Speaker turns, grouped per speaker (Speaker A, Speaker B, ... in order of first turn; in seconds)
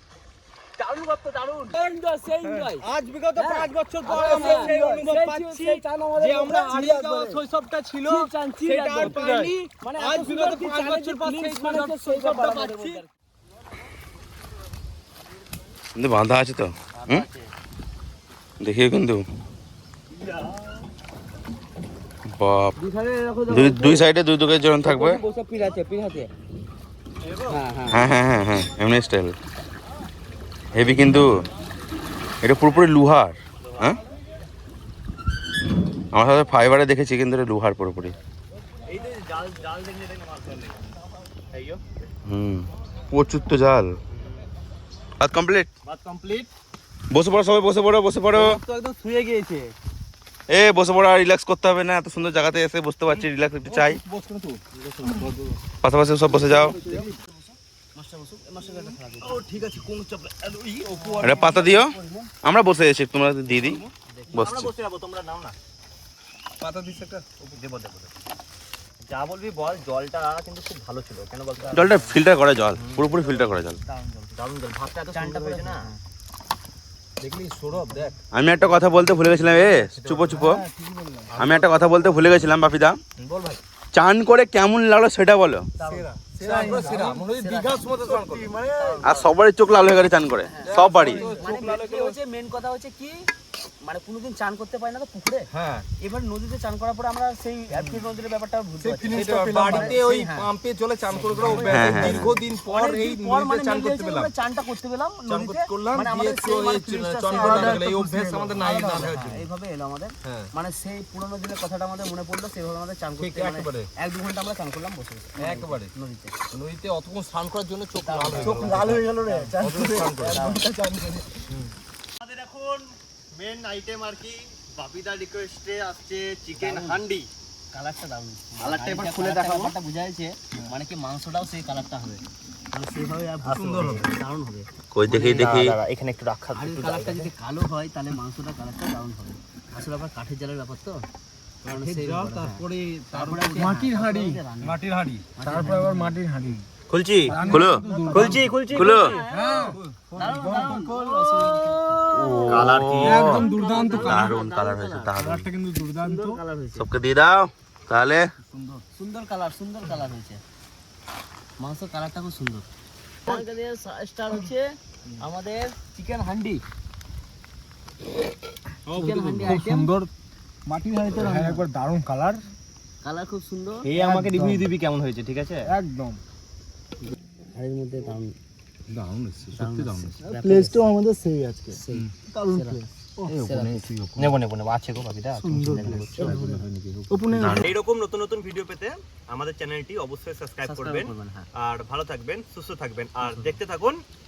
Speaker A: 0.8-7.4, 8.1-13.1, 22.8-24.1, 24.8-26.3, 27.5-28.1, 54.8-55.3, 56.4-59.5, 61.0-62.3, 64.1-64.5, 71.6-71.9, 73.3-74.3, 75.0-75.9, 85.8-89.3, 90.4-93.3, 93.8-100.5, 101.1-116.3, 117.9-120.7, 126.5-127.0, 127.7-134.7, 136.5-141.1, 141.6-144.8, 145.3-146.3, 147.3-155.1, 155.9-156.8, 158.9-160.4, 161.6-162.7, 163.2-166.6, 168.9-169.9, 171.1-171.6, 173.0-173.9, 177.1-178.3, 179.5-180.9, 181.7-183.9, 185.6-186.6, 190.6-191.5, 193.2-193.6
Speaker B: 2.4-2.7, 3.6-13.0, 53.6-55.6, 56.7-57.1, 58.7-58.9, 60.4-61.5, 63.5-63.9, 66.6-67.3, 77.2-78.2, 78.7-82.4, 83.2-83.6, 85.8-89.1, 90.6-92.2, 95.5-95.9, 97.7-98.0, 98.8-104.3, 105.3-109.5, 110.2-110.5, 113.2-113.9, 115.4-115.9, 116.5-121.7, 133.5-134.1, 141.6-146.6, 147.3-148.5, 149.3-151.8, 153.0-154.3, 155.2-156.4, 158.4-158.8, 168.9-170.1, 170.8-172.4, 174.0-174.6, 175.7-176.2, 178.9-182.1, 183.2-184.3, 185.4-187.7
Speaker C: 2.8-5.1, 16.9-17.5, 20.1-20.9, 27.2-27.6, 33.6-34.0, 38.9-40.9, 41.5-41.8, 44.1-44.5, 45.8-46.5, 48.3-49.7, 59.2-60.7, 64.3-65.5, 67.4-68.1, 69.1-72.2, 72.7-73.1, 74.3-75.9, 107.3-107.7, 118.3-119.5, 122.2-127.3, 128.6-129.8, 133.4-134.0, 135.1-137.3, 146.9-149.2, 152.5-153.3, 169.1-169.6, 173.8-175.7, 184.2-186.4, 187.5-194.0
Speaker D: 15.9-17.2, 18.6-19.2, 22.3-22.8, 23.5-25.2, 27.9-29.3, 30.7-31.5, 32.4-34.0, 36.1-38.1, 42.2-43.9, 45.2-45.7, 47.1-48.5, 50.5-54.0, 55.8-56.8, 61.2-64.7, 71.7-73.8, 78.3-80.6, 81.3-83.0, 83.9-85.7, 89.0-91.3, 101.7-102.3, 134.9-135.7, 147.5-147.8, 148.7-149.2, 152.1-155.5, 156.8-158.3, 187.3-187.8